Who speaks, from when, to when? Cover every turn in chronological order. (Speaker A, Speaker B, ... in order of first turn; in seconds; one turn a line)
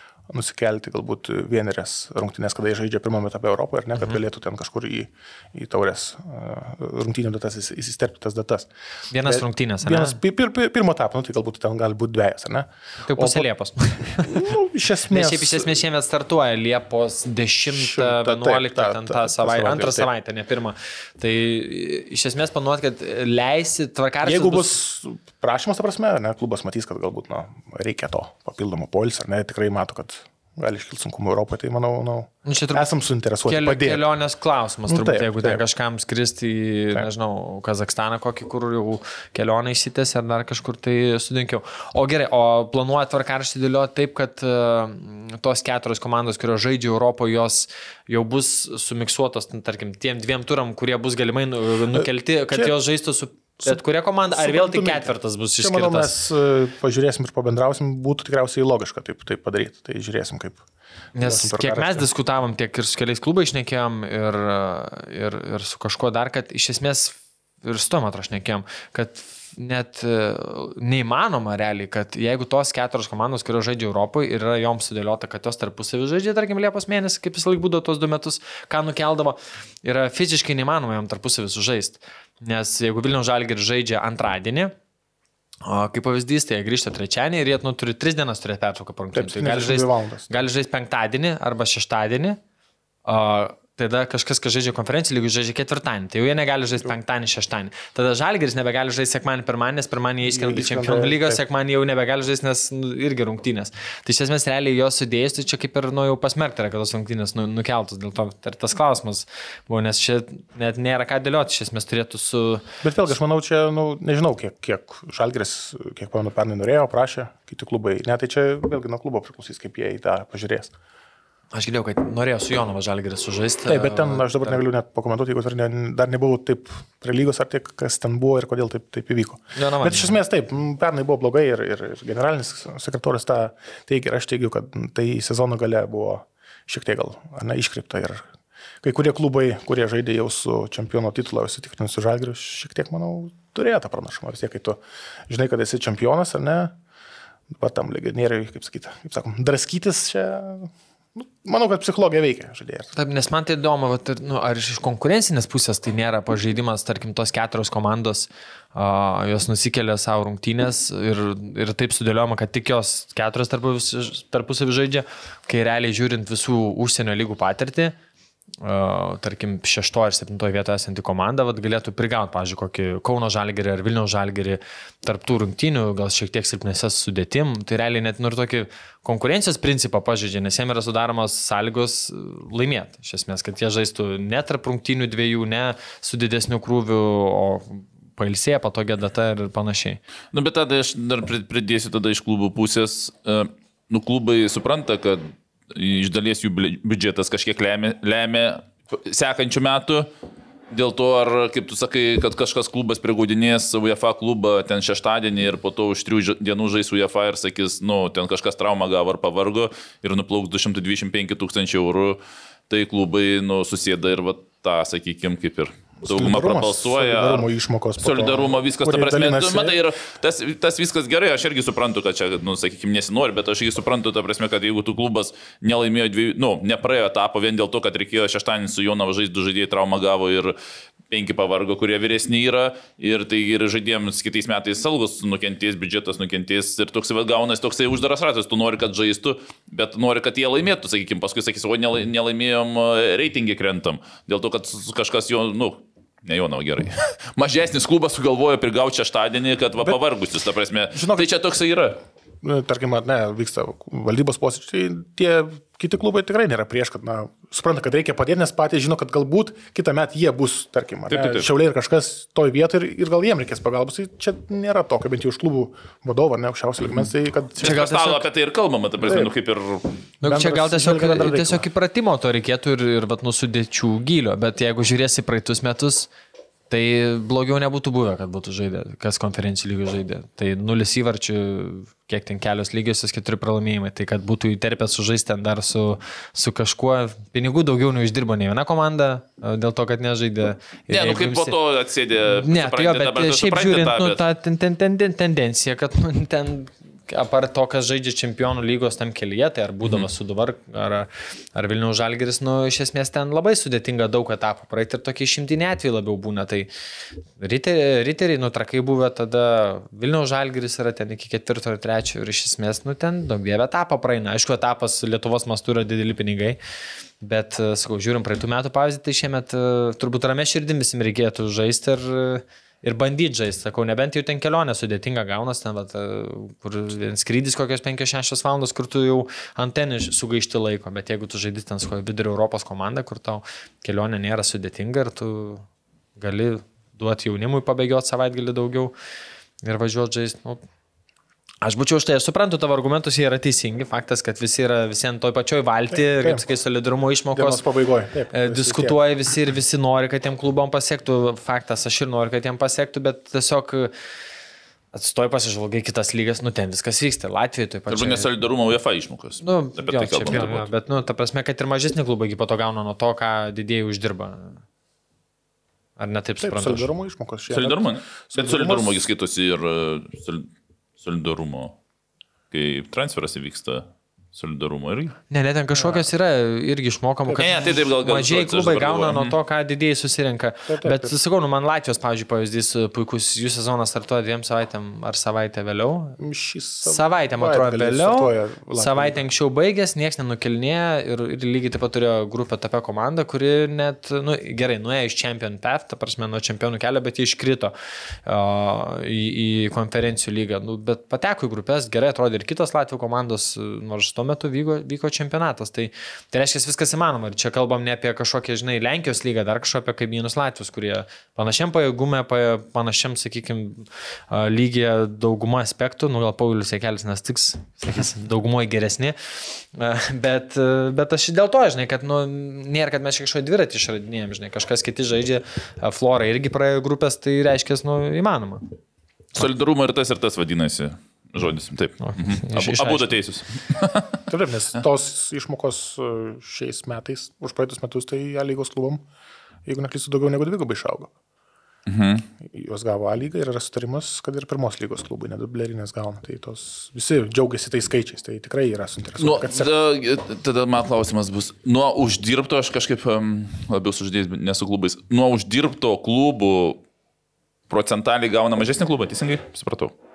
Speaker A: 0.3-8.7
Speaker B: 9.1-10.2
Speaker A: 9.2-13.5
Speaker B: 13.1-14.4
Speaker A: 14.0-15.7
Speaker B: 15.1-24.8
Speaker A: 17.7-20.1
Speaker A: 24.2-34.1
Speaker B: 32.5-32.9
Speaker B: 33.5-56.2
Speaker A: 34.9-35.6
Speaker A: 51.9-52.7
Speaker A: 53.6-60.6
Speaker B: 61.1-84.8
Speaker A: 61.2-62.1
Speaker B: 85.7-92.4
Speaker A: 89.1-90.5
Speaker B: 93.0-112.7
Speaker A: 100.3-101.4
Speaker A: 112.8-120.7
Speaker B: 121.5-124.6
Speaker A: 123.7-138.3
Speaker B: 129.6-130.2
Speaker A: 138.8-146.8
Speaker A: 147.5-152.9
Speaker B: 152.9-168.0
Speaker B: 168.6-190.0
Speaker C: 190.3-200.1
Speaker C: 200.7-217.5
Speaker A: 216.0-219.8
Speaker C: 218.0-230.6
Speaker C: 231.1-252.0
Speaker A: 250.9-251.3
Speaker A: 252.4-267.8
Speaker C: 261.1-261.5
Speaker C: 267.6-270.0
Speaker B: 267.6-268.2
Speaker A: 269.0-269.3
Speaker B: 270.2-276.1
Speaker A: 270.2-271.6
Speaker B: 276.7-291.6
Speaker C: 290.9-294.2
Speaker B: 292.3-306.7
Speaker B: 307.4-316.6
Speaker B: 317.2-335.7
Speaker B: 336.2-338.9
Speaker B: 339.6-340.6
Speaker B: 341.6-347.6
Speaker A: 345.9-346.4
Speaker A: 347.3-349.0
Speaker B: 348.3-353.9
Speaker B: 354.9-358.3
Speaker C: 357.9-360.7
Speaker B: 359.4-364.6
Speaker B: 366.0-366.9
Speaker A: 366.4-369.0
Speaker C: 367.5-370.5
Speaker C: 371.0-371.8
Speaker C: 372.5-375.2
Speaker B: 375.3-386.2
Speaker A: 375.8-376.0
Speaker C: 377.4-379.4
Speaker A: 380.7-381.1
Speaker A: 386.2-389.2
Speaker B: 386.9-397.7
Speaker B: 398.2-428.8
Speaker C: 429.4-434.2
Speaker B: 432.0-433.1
Speaker A: 434.3-439.0
Speaker A: 439.7-441.1
Speaker C: 441.9-442.3
Speaker A: 442.4-449.7
Speaker C: 449.2-456.8
Speaker C: 457.7-459.9